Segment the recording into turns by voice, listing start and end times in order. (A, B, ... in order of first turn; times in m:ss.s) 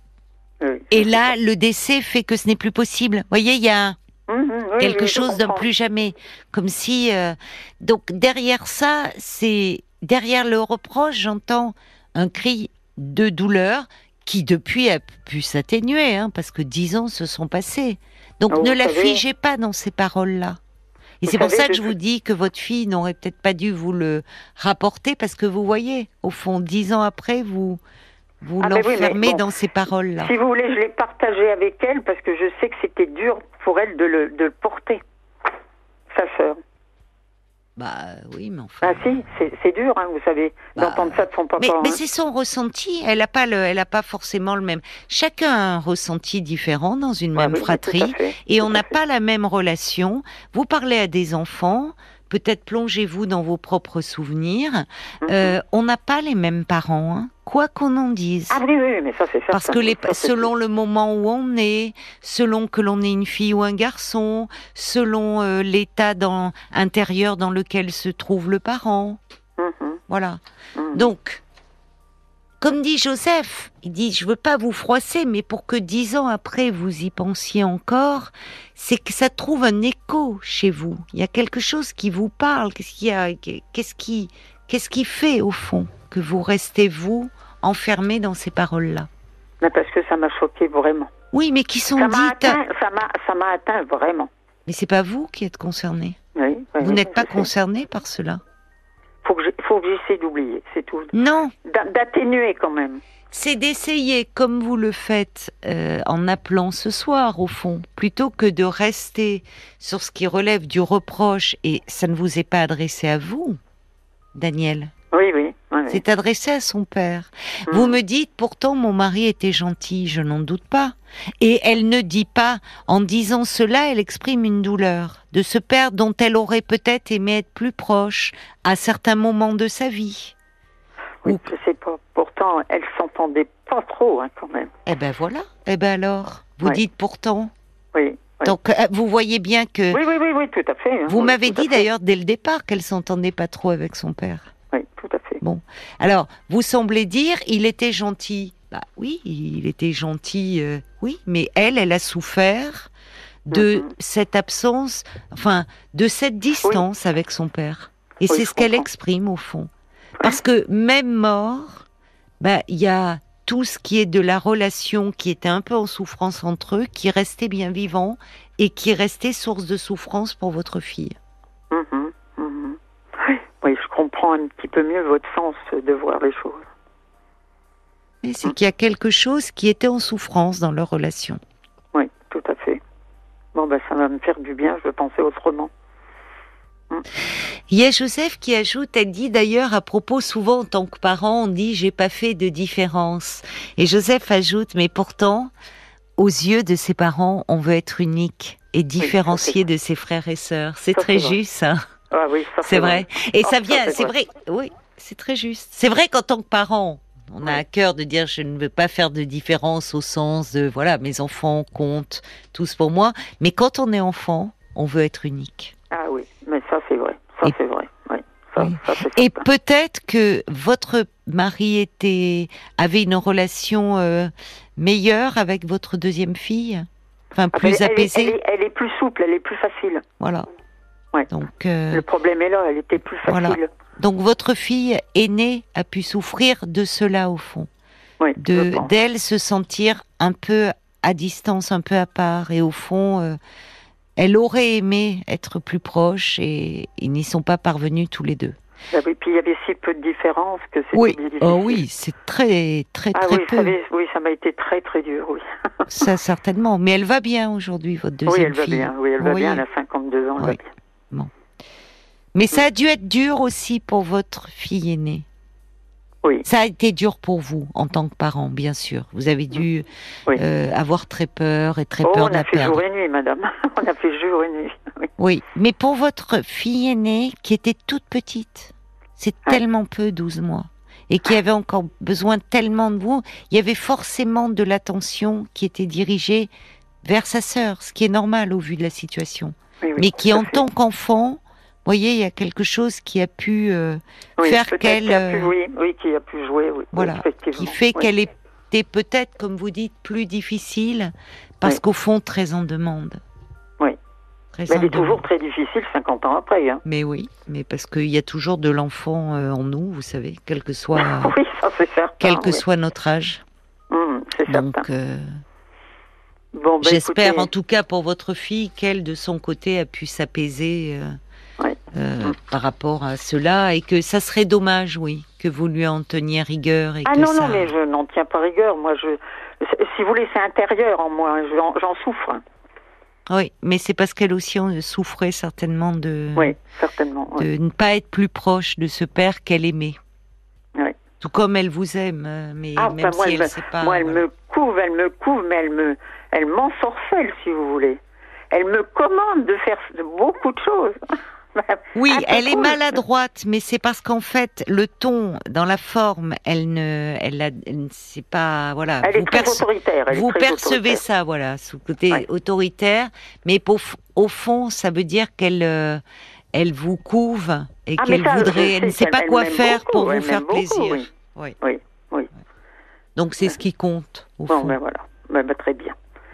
0:00.6-0:01.3 A
0:00.9-0:04.0 B
0:04.3-0:05.7 A
0:04.8-0:20.6 B
0:18.5-0:19.2 A
0:21.2-0:27.8 B
0:21.2-0:21.9 A
0:28.4-0:30.3 B
0:28.6-0:29.5 A
0:30.2-0:35.0 A
0:36.1-0:36.6 A
0:37.8-0:39.2 B
0:38.8-0:42.0 A
0:40.8-0:58.6 B
0:47.4-0:48.9 A
0:55.2-0:55.6 A
0:58.5-1:00.5 A
0:59.5-1:09.2 B
1:09.6-1:10.0 A
1:10.1-1:10.4 B
1:10.8-1:11.1 A
1:10.9-1:11.4 B
1:12.6-1:29.1 B
1:29.6-1:31.1 A
1:31.3-1:32.6 B
1:32.0-1:34.3 A
1:34.7-1:36.2 B
1:36.4-1:37.5 A
1:36.8-1:38.4 B
1:39.2-1:41.1 A
1:41.1-1:41.5 B
1:41.6-1:43.0 A
1:43.3-1:53.6 B
1:54.4-1:54.9 B
1:55.1-1:56.0 A
1:55.9-2:10.4 B
1:57.7-1:58.0 A
2:11.2-2:14.7 A
2:14.9-2:17.5 B
2:17.9-2:18.6 A
2:18.4-2:20.0 B
2:19.9-2:21.9 A
2:21.1-2:24.5 B
2:24.7-2:25.4 A
2:25.4-2:32.9 B
2:33.5-2:33.9 A
2:33.5-2:39.7 B
2:38.3-2:38.9 A
2:40.2-2:41.9 B
2:42.4-2:51.2 B
2:51.7-2:56.7 A
2:58.2-3:01.4 B
3:01.9-3:02.8 A
3:03.6-3:05.7 A
3:07.7-3:15.5 B
3:16.2-3:21.8 B
3:19.0-3:19.6 A
3:20.9-3:21.4 A
3:22.1-3:24.1 A
3:22.6-3:35.7 B
3:35.9-3:39.4 A
3:38.6-3:48.4 B
3:47.5-3:50.0 A
3:50.2-3:50.5 B
3:51.3-3:52.0 B
3:51.9-3:53.7 A
3:53.2-3:57.7 B
3:58.2-3:58.9 A
3:58.4-4:03.4 B
4:04.2-4:08.6 B
4:08.9-4:11.8 A
4:10.9-4:13.7 B
4:13.1-4:16.1 A
4:15.9-4:19.6 B
4:18.3-4:20.7 A
4:22.4-4:25.2 B
4:26.4-4:32.8 B
4:32.0-4:35.1 A
4:35.2-4:46.5 B
4:47.0-4:55.5 B
4:49.8-4:50.6 A
4:54.4-4:58.1 A
4:56.9-5:03.2 B
5:04.5-5:05.2 B
5:04.7-5:06.8 A
5:06.8-5:11.4 B
5:11.0-5:12.6 A
5:12.2-5:13.4 B
5:13.9-5:14.9 A
5:14.4-5:15.3 B
5:16.5-5:17.5 A
5:16.8-5:21.2 B
5:21.6-5:22.4 A
5:21.9-5:27.7 B
5:27.0-5:32.4 A
5:33.3-5:36.6 B
5:36.4-5:37.5 A
5:37.4-5:40.0 B
5:41.2-5:44.2 B
5:42.8-5:48.0 A
5:48.5-5:51.0 A
5:51.6-5:52.9 A
5:52.0-6:06.0 B
5:59.0-6:01.0 A
6:06.5-6:11.6 B
6:08.0-6:11.1 A
6:11.6-6:12.3 A
6:13.2-6:14.8 B
6:14.5-6:16.0 A